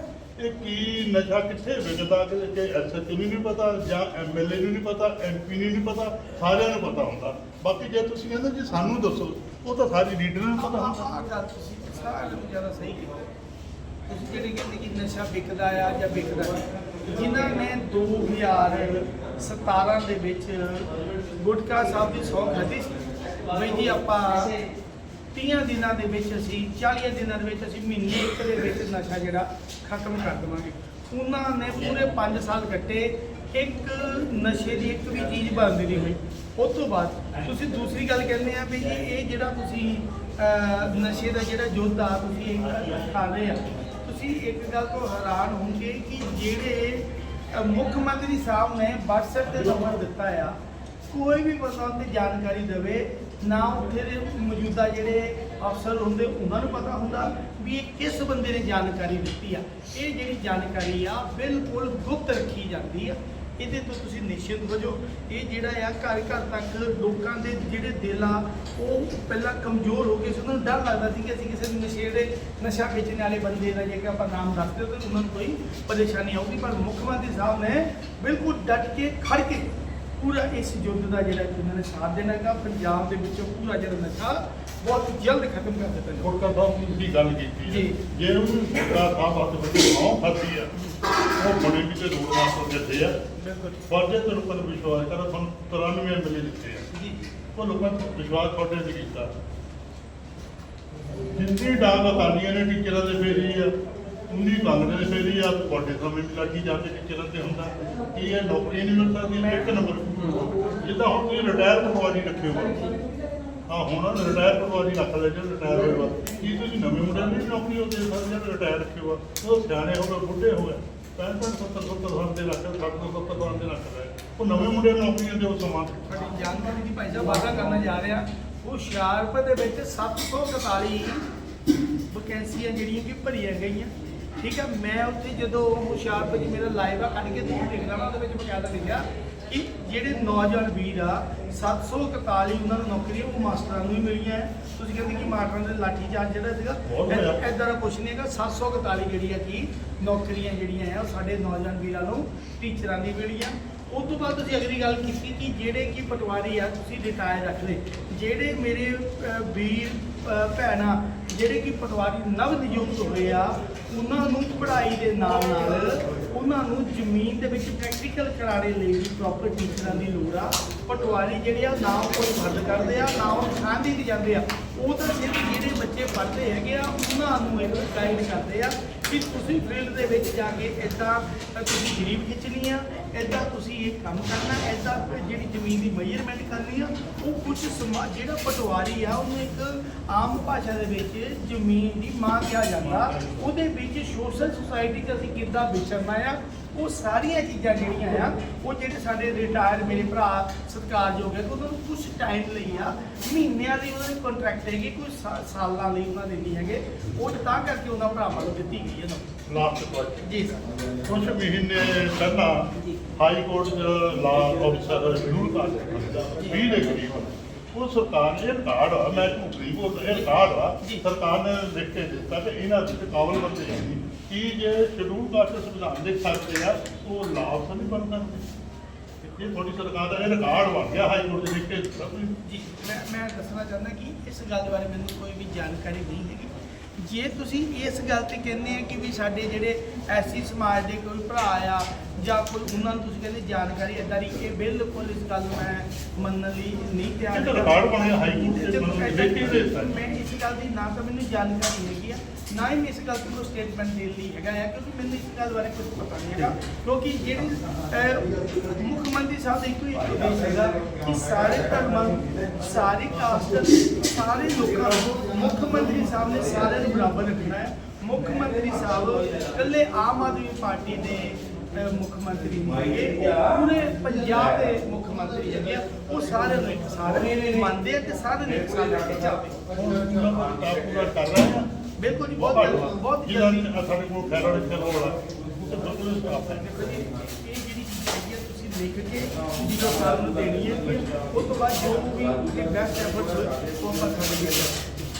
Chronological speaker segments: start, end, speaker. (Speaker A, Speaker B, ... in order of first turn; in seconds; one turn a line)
Speaker A: 0.4-11.1
Speaker B: 10.6-13.2
Speaker B: 14.1-24.7
Speaker B: 25.3-50.6
Speaker B: 51.1-86.3
Speaker A: 86.2-90.7
Speaker B: 87.7-88.0
Speaker B: 90.8-91.0
Speaker A: 91.3-93.2
Speaker B: 93.4-93.8
Speaker A: 93.9-96.9
Speaker B: 96.9-97.3
Speaker A: 97.6-99.3
Speaker A: 101.3-103.7
Speaker A: 104.3-112.9
Speaker A: 113.7-126.1
Speaker B: 126.1-131.3
Speaker B: 132.1-209.4
Speaker A: 146.9-147.4
Speaker A: 192.8-193.5
Speaker A: 209.5-210.3
Speaker B: 210.2-210.6
Speaker A: 211.1-228.5
Speaker A: 229.3-232.4
Speaker B: 232.4-279.6
Speaker A: 247.3-249.9
Speaker A: 279.7-286.7
Speaker B: 282.0-283.8
Speaker B: 286.6-295.1